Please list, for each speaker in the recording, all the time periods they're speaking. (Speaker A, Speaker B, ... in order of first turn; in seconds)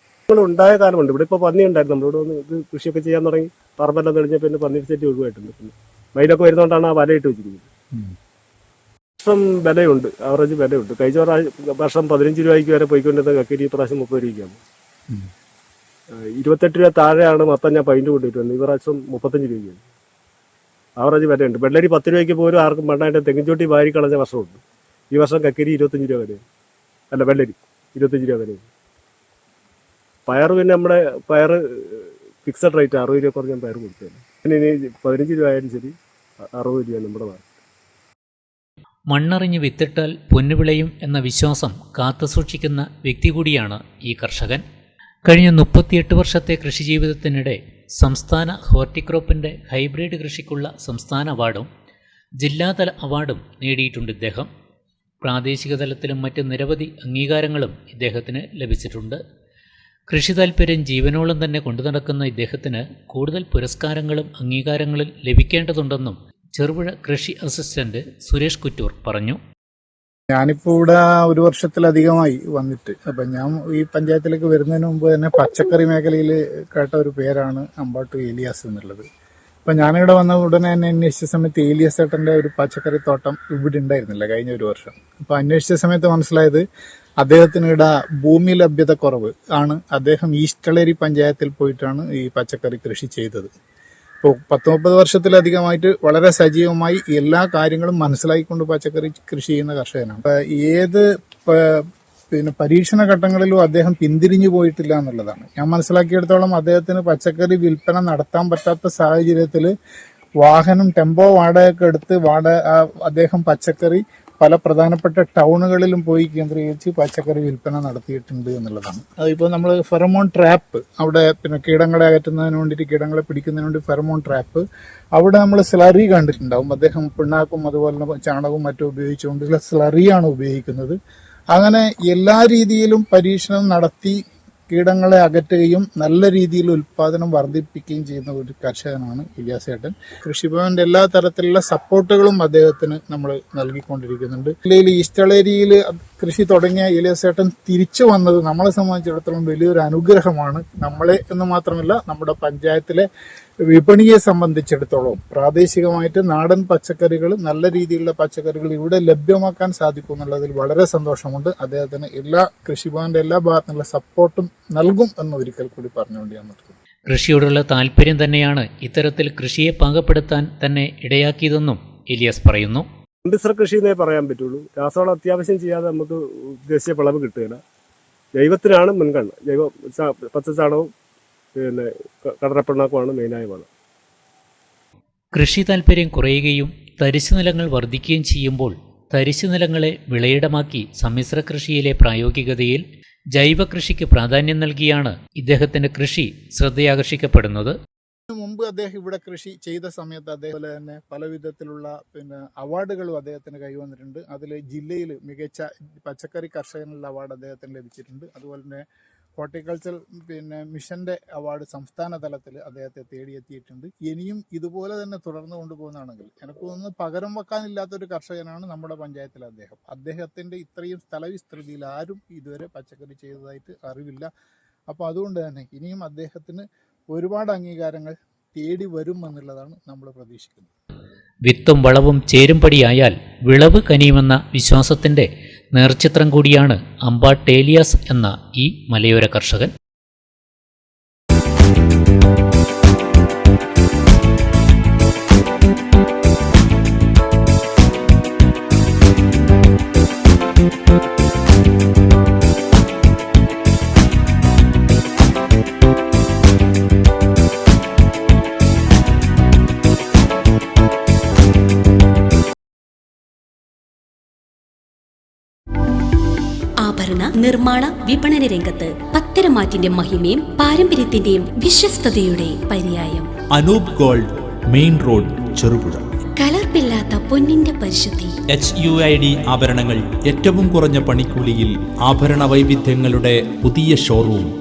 Speaker A: 0.3-7.7, 9.2-14.6, 16.1-19.8, 21.0-26.4, 27.1-28.6, 30.3-35.9, 36.6-37.4, 173.2-177.6, 178.4-180.9, 181.6-183.7
Speaker B: 39.1-44.6, 45.3-51.7, 52.4-54.5, 55.2-59.2, 60.1-69.4, 167.1-172.8, 185.3-192.8, 193.3-197.7, 231.4-239.7
Speaker C: 70.3-79.0, 79.7-86.6, 87.2-93.5, 94.2-109.7, 110.4-124.6, 125.2-131.0, 131.5-134.2, 134.7-153.0, 153.7-166.7, 198.3-208.8, 209.4-224.3, 224.9-230.7
Speaker D: 266.8-273.3, 276.4-278.3
Speaker E: 273.5-276.0, 278.5-284.5